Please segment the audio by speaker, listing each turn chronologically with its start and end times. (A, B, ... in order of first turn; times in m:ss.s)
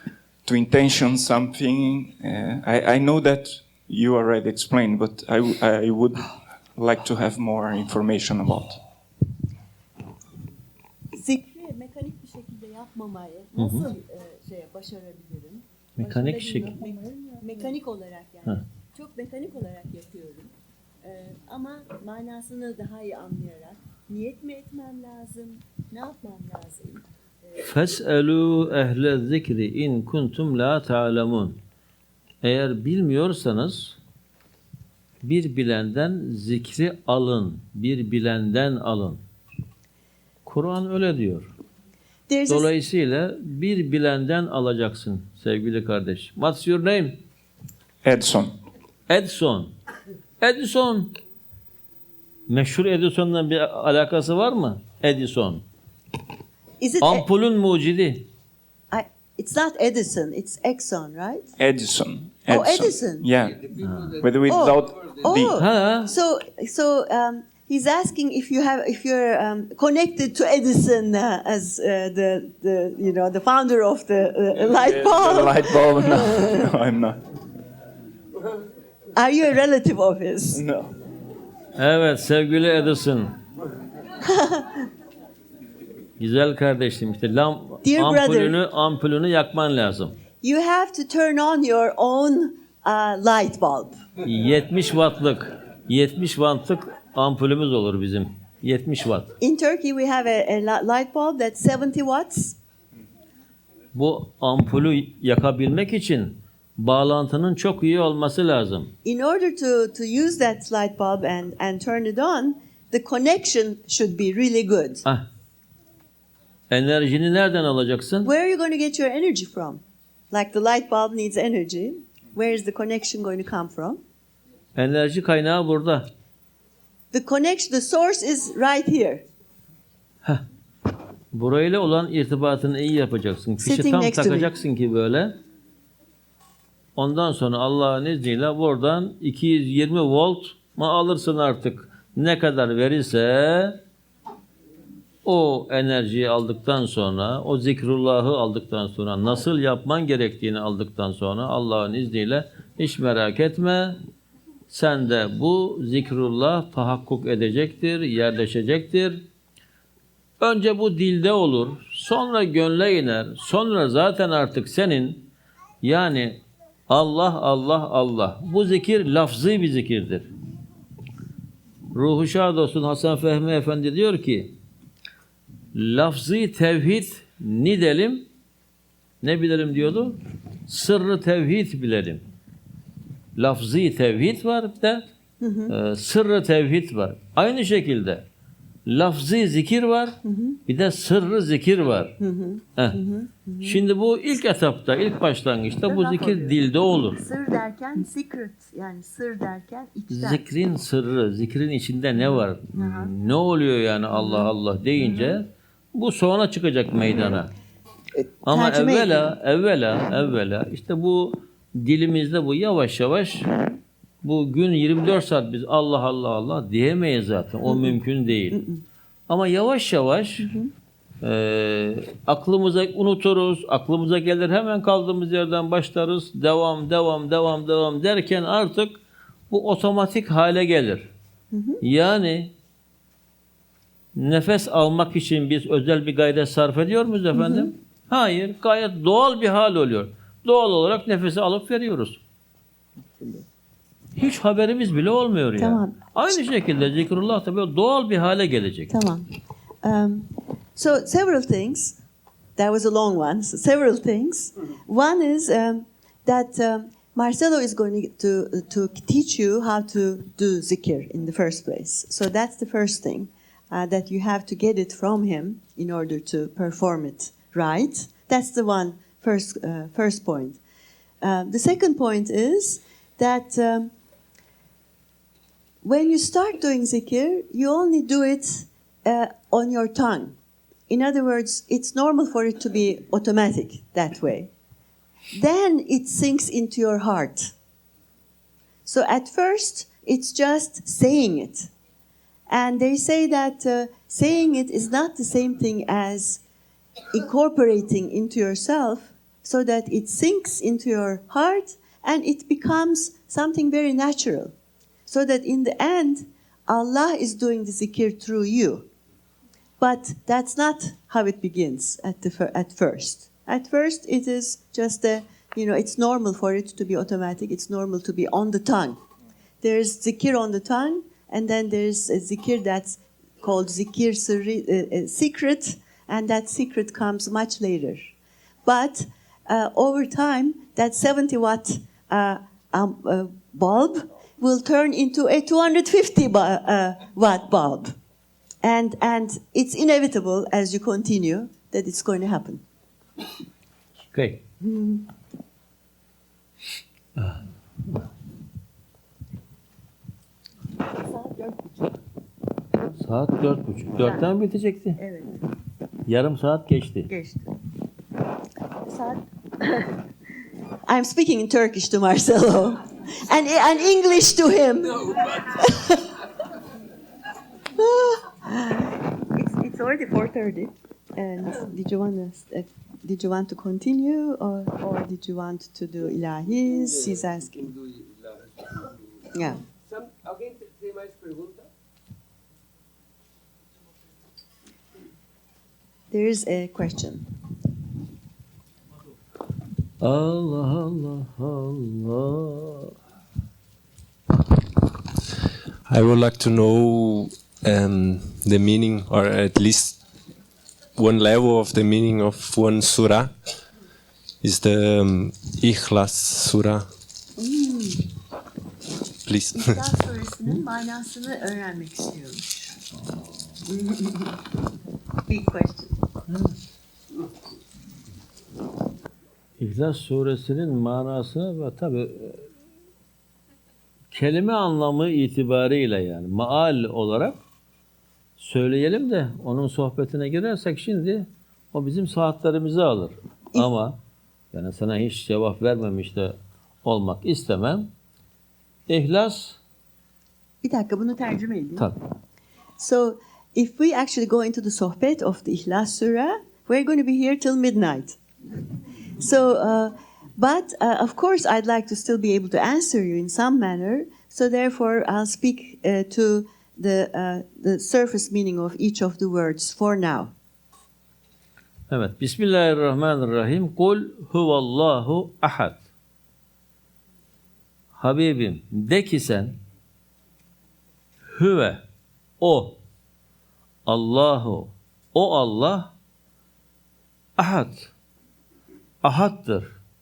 0:00.4-0:08.8 A
0:11.1-0:20.5 B
0:13.6-0:13.9 C
0:16.0-0:16.8 C
0:21.0-0:27.0 B
0:27.6-0:31.6 C
0:32.4-0:34.0 C
0:35.2-0:39.2 C
0:40.4-0:41.5 C
0:42.3-0:42.7 B
0:42.5-0:47.2 C
0:48.0-0:48.5 A
0:49.1-0:49.7 C
0:50.4-0:51.2 C
0:52.5-0:55.6 C
0:56.8-0:57.3 B
0:57.0-0:58.3 C
0:58.9-1:01.5 B
1:01.6-1:05.6 A
1:02.5-1:03.3 B
1:03.4-1:05.3 D
1:03.8-1:04.2 C
1:04.5-1:16.7 B
1:05.6-1:06.1 C
1:14.7-1:17.2 A
1:19.2-1:20.6 B
1:20.6-1:20.9 A
1:21.8-1:23.4 C
1:24.2-1:24.8 B
1:26.2-1:30.2 C
1:27.8-1:28.6 B
1:30.4-1:34.0 B
1:34.2-1:39.3 C
1:39.4-1:42.6 B
1:43.9-1:48.9 C
1:49.0-1:55.0 B
1:56.7-1:58.3 C
1:58.2-2:04.0 B
2:04.8-2:06.1 C
2:07.1-2:09.2 B
2:11.3-2:15.4 C
2:13.6-2:14.5 B
2:17.0-2:23.8 C
2:25.2-2:34.0 C
2:34.7-2:39.2 C
2:40.4-2:45.3 C
2:45.8-2:50.3 C
2:51.9-2:54.6 C
2:55.8-2:58.3 C
2:59.2-3:02.2 C
3:03.4-3:05.1 C
3:05.4-3:05.7 B
3:05.7-3:08.2 C
3:08.9-3:12.2 C
3:10.2-3:10.6 B
3:12.2-3:13.8 B
3:13.6-3:17.2 C
3:15.9-3:20.4 B
3:20.1-3:27.5 C
3:22.8-3:23.1 B
3:24.1-3:24.5 B
3:28.2-3:29.4 B
3:28.5-3:33.5 C
3:34.2-3:38.6 C
3:37.7-3:38.0 B
3:38.5-3:38.8 B
3:39.3-3:40.5 C
3:40.4-3:40.7 B
3:41.2-3:49.0 C
3:49.5-3:51.1 C
3:51.5-3:51.8 B
3:51.8-3:52.5 C
3:54.2-4:02.2 C
3:57.4-3:57.7 B
4:03.2-4:03.4 B
4:04.2-4:08.9 C
4:05.6-4:06.1 B
4:08.9-4:09.3 B
4:09.8-4:12.0 B
4:12.6-4:30.6 B
4:31.2-4:33.9 B
4:35.8-4:40.4 B
4:40.9-4:44.5 B
4:45.3-4:47.5 B
4:48.9-4:51.7 B
4:52.5-4:56.4 B
4:57.1-5:04.5 B
5:05.1-5:08.9 B
5:09.8-5:19.0 B
5:19.6-5:28.1 B
5:28.6-5:38.0 B
5:38.6-5:42.6 B
5:44.1-5:44.4 C
5:44.6-5:45.1 B
5:47.2-5:47.4 C
5:50.9-5:52.0 B
5:53.0-5:55.0 C
5:55.0-5:55.4 B
5:56.1-5:57.1 C
5:57.1-5:57.6 B
5:58.8-6:00.0 B
6:00.9-6:06.2 B
6:07.8-6:17.7 B
6:16.6-6:21.7 D
6:19.3-6:19.6 B
6:26.1-6:27.3 B
6:30.0-6:33.0 C
6:35.9-6:40.0 E
6:41.0-6:43.3 E
6:44.4-6:46.9 E
6:47.4-6:48.0 B
6:49.2-6:49.6 E
6:49.5-6:52.7 B
6:53.7-6:54.4 B
6:55.3-6:56.0 B
6:56.3-6:56.6 C
6:59.6-7:02.4 C
7:04.1-7:07.4 C
7:08.4-7:14.0 C
7:14.5-7:17.9 C
7:18.9-7:19.6 C
7:20.6-7:21.9 B
7:22.8-7:28.2 B
7:29.2-7:40.3 B
7:41.9-7:45.8 C
7:47.9-7:49.6 C
7:51.3-7:51.8 C
7:52.4-7:52.8 C
7:53.9-7:55.9 C
7:57.4-7:57.9 C
7:59.0-7:59.7 C